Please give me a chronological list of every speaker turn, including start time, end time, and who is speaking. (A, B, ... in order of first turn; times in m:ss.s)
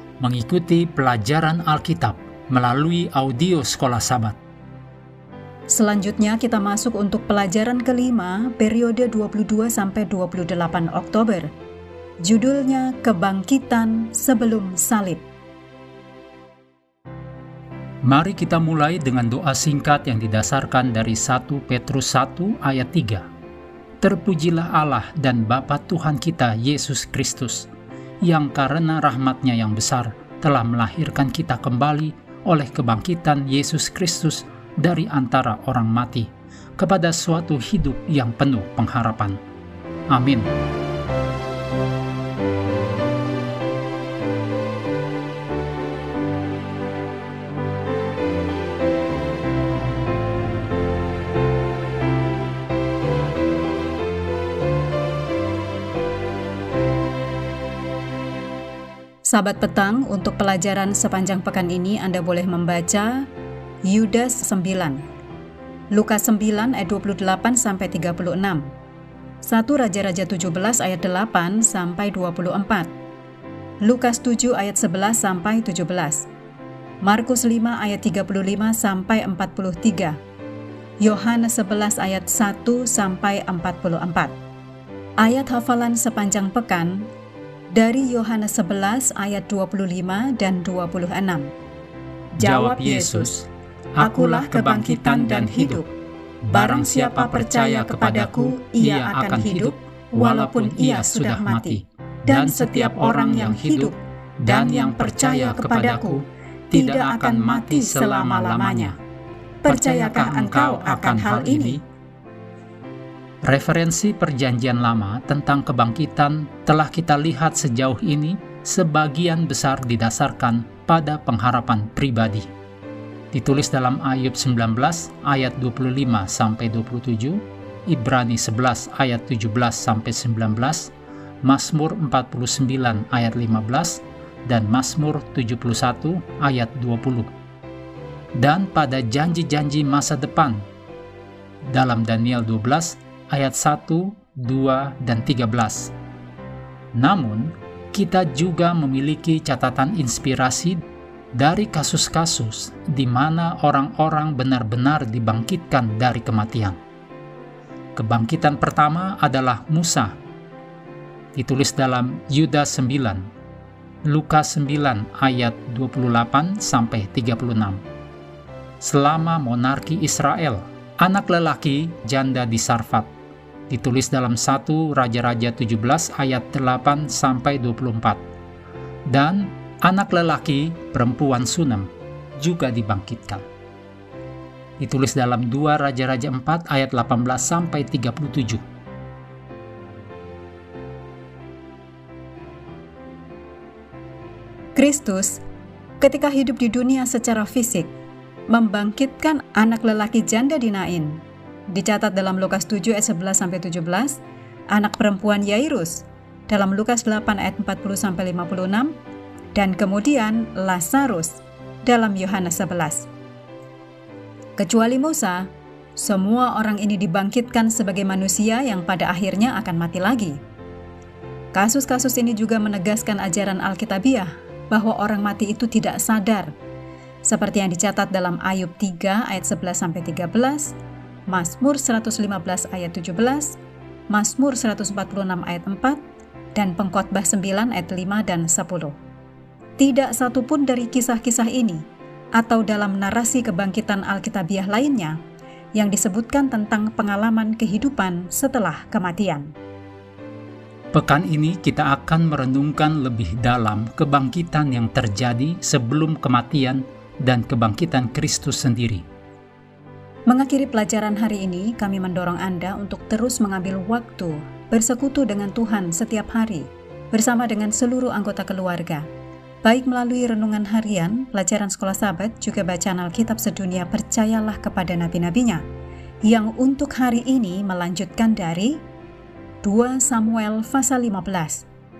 0:00.2-0:04.4 A
0:05.7-0:11.5 B
0:12.2-0:15.2 B
0:18.0-0:23.3 A
0:24.0-0:27.7 A
0:28.2-0:39.4 A
0:40.1-0:40.5 A
0:59.2-1:03.3 B
1:03.8-1:05.0 B
1:05.9-1:08.7 B
1:09.4-1:12.9 B
1:13.8-1:16.2 B
1:17.0-1:20.2 B
1:21.0-1:24.3 B
1:25.2-1:27.1 B
1:27.7-1:31.5 B
1:32.4-1:33.3 B
1:32.4-1:35.8 A
1:34.0-1:35.9 B
1:36.4-1:49.0 A
1:36.5-1:49.0 B
1:49.6-1:51.8 B
1:49.6-1:51.8 A
1:53.4-2:02.5 A
2:03.3-2:10.9 A
2:11.4-2:17.3 A
2:18.4-2:20.7 A
2:21.6-2:25.9 A
2:26.9-2:30.8 A
2:31.3-2:36.8 A
2:38.0-2:40.2 A
2:41.3-2:43.3 A
2:44.1-2:47.8 A
2:48.8-2:53.1 A
2:53.7-2:58.2 A
2:59.1-3:03.4 A
3:04.8-3:08.6 A
3:14.8-3:15.4 B
3:16.0-3:17.9 B
3:18.5-3:29.0 B
3:29.5-3:33.1 B
3:34.6-3:40.4 B
3:41.5-3:46.5 B
3:47.2-3:50.8 B
3:51.3-3:53.6 B
3:54.1-3:56.0 B
3:56.5-3:59.0 B
3:59.8-4:01.8 B
4:02.4-4:05.2 B
4:05.7-4:09.5 B
4:10.9-4:19.0 A
4:20.3-4:29.1 B
4:29.6-4:35.6 B
4:36.2-4:38.8 B
4:39.6-4:41.6 B